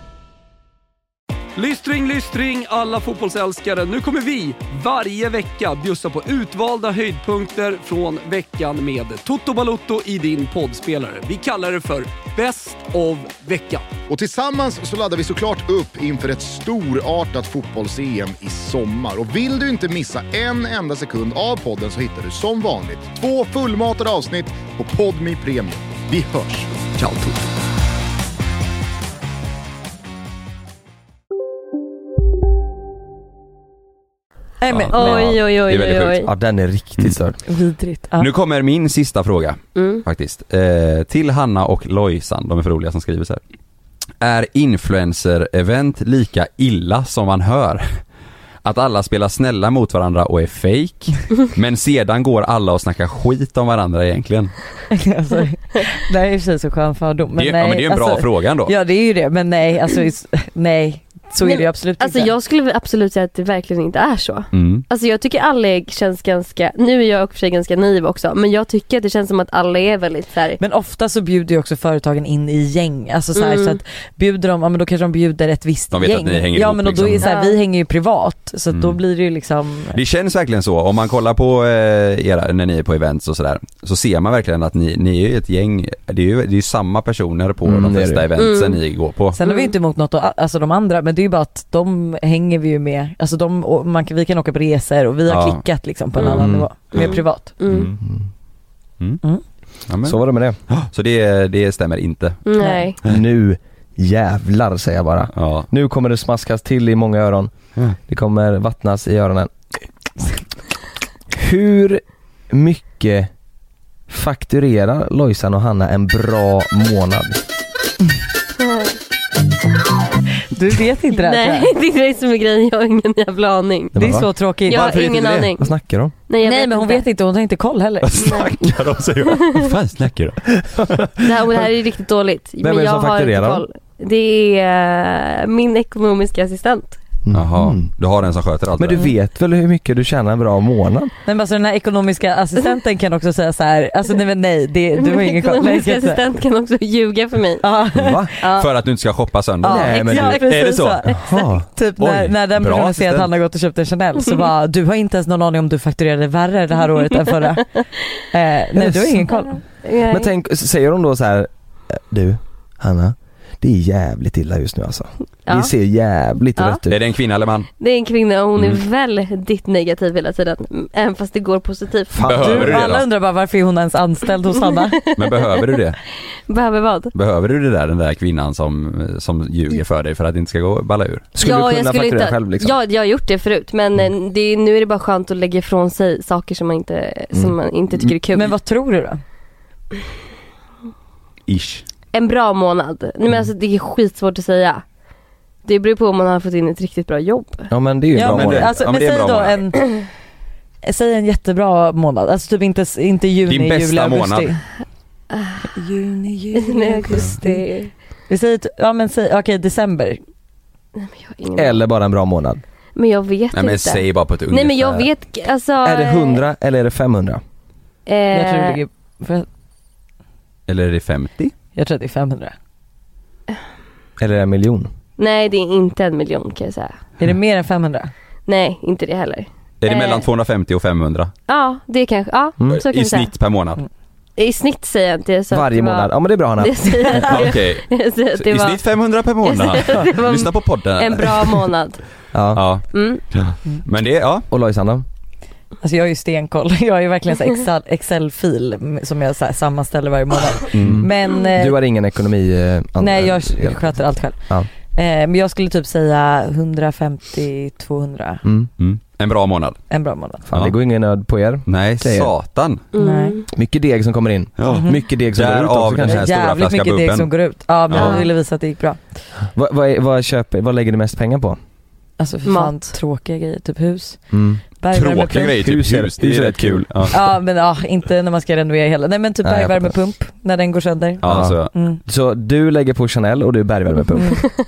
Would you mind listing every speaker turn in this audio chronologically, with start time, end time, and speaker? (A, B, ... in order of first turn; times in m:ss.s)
0:01.5-0:13.9 A
0:14.1-0:27.3 B
0:34.6-0:35.4 C
0:34.7-0:36.2 D
0:34.9-0:36.3 E
0:36.2-0:37.4 F
0:37.5-0:38.3 C
0:38.2-0:43.4 D
0:39.8-0:40.0 E
0:44.2-0:48.0 D
0:48.6-0:54.5 D
0:54.9-1:02.3 C
0:57.4-0:58.7 D
1:01.4-1:10.6 E
1:04.5-1:04.8 D
1:10.6-1:20.0 C
1:13.3-1:13.8 E
1:15.9-1:17.3 D
1:17.2-1:17.6 E
1:19.9-1:29.4 D
1:27.6-1:28.3 F
1:28.4-1:28.8 E
1:29.3-1:37.5 C
1:29.4-1:29.7 E
1:35.3-1:35.6 D
1:36.2-1:37.9 E
1:36.4-1:36.7 F
1:37.6-1:37.9 D
1:38.0-1:38.2 F
1:39.9-1:42.4 D
1:40.0-1:40.6 F
1:42.4-1:43.0 E
1:42.6-1:42.9 C
1:43.0-1:47.5 F
1:45.3-1:45.7 D
1:48.1-1:49.5 F
1:51.3-1:53.3 F
1:54.1-1:57.4 F
2:00.5-2:01.7 C
2:01.1-2:04.0 E
2:03.9-2:04.3 F
2:04.0-2:04.9 C
2:04.6-2:05.7 E
2:04.7-2:05.5 D
2:05.6-2:06.1 F
2:06.3-2:07.0 E
2:06.4-2:08.4 C
2:08.0-2:10.6 D
2:08.2-2:08.6 E
2:10.6-2:11.5 F
2:11.2-2:17.0 E
2:12.6-2:13.6 F
2:17.2-2:17.9 F
2:17.3-2:19.0 D
2:18.8-2:21.1 F
2:21.2-2:26.2 C
2:25.0-2:27.6 E
2:27.6-2:28.3 C
2:27.9-2:28.3 F
2:28.4-2:28.7 E
2:28.6-2:31.1 D
2:29.6-2:39.6 C
2:29.6-2:30.4 F
2:29.9-2:30.4 E
2:31.1-2:31.6 F
2:32.0-2:33.3 D
2:38.8-2:39.3 F
2:39.8-2:40.3 E
2:40.0-2:47.0 F
2:45.5-2:45.7 E
2:46.9-2:47.7 D
2:47.8-2:52.2 E
2:48.6-2:48.8 D
2:52.1-2:52.8 F
2:52.2-2:53.0 D
2:52.4-2:55.0 C
2:55.1-2:56.0 D
2:56.5-2:57.1 E
2:57.1-3:01.2 D
3:01.3-3:02.8 F
3:01.4-3:08.5 E
3:08.3-3:09.2 C
3:11.5-3:11.8 D
3:12.1-3:14.8 E
3:15.6-3:17.7 E
3:17.7-3:18.7 F
3:18.2-3:19.8 C
3:18.2-3:19.6 D
3:20.8-3:24.6 C
3:23.4-3:24.5 D
3:25.3-3:25.6 E
3:25.6-3:27.6 C
3:26.6-3:27.9 E
3:28.3-3:30.2 C
3:31.0-3:31.8 E
3:31.5-3:32.6 F
3:33.0-3:36.4 E
3:33.5-3:35.1 D
3:35.8-3:37.4 F
3:38.1-3:38.8 E
3:38.3-3:39.5 C
3:40.7-3:41.5 D
3:41.8-3:42.5 C
3:44.2-3:44.9 F
3:45.2-3:47.0 E
3:47.2-3:48.1 C
3:48.4-3:50.2 E
3:49.8-3:51.3 D
3:51.5-3:53.3 E
3:52.7-3:53.8 D
3:54.4-3:58.8 E
3:55.5-3:57.5 F
3:57.3-4:01.7 D
3:59.4-4:02.0 E
4:02.3-4:02.6 F
4:02.5-4:04.4 D
4:02.9-4:03.2 E
4:04.5-4:05.0 F
4:05.8-4:11.8 C
4:10.7-4:11.0 D
4:10.8-4:14.7 F
4:13.0-4:14.4 C
4:14.9-4:18.4 C
4:18.4-4:18.7 F
4:18.8-4:19.8 D
4:19.9-4:20.4 C
4:20.5-4:22.3 F
4:21.6-4:22.8 D
4:22.9-4:23.5 E
4:23.0-4:23.4 C
4:23.5-4:26.2 F
4:24.6-4:27.3 D
4:24.7-4:25.0 C
4:26.0-4:29.0 C
4:27.9-4:28.2 D
4:27.9-4:28.3 E
4:29.5-4:31.6 F
4:32.2-4:35.6 C
4:32.4-4:32.9 E
4:34.3-4:34.6 F
4:34.9-4:37.1 D
4:35.5-4:37.1 F
4:37.1-4:42.0 C
4:39.4-4:40.0 F
4:41.2-4:41.7 D
4:41.2-4:44.5 F
4:44.2-4:44.4 C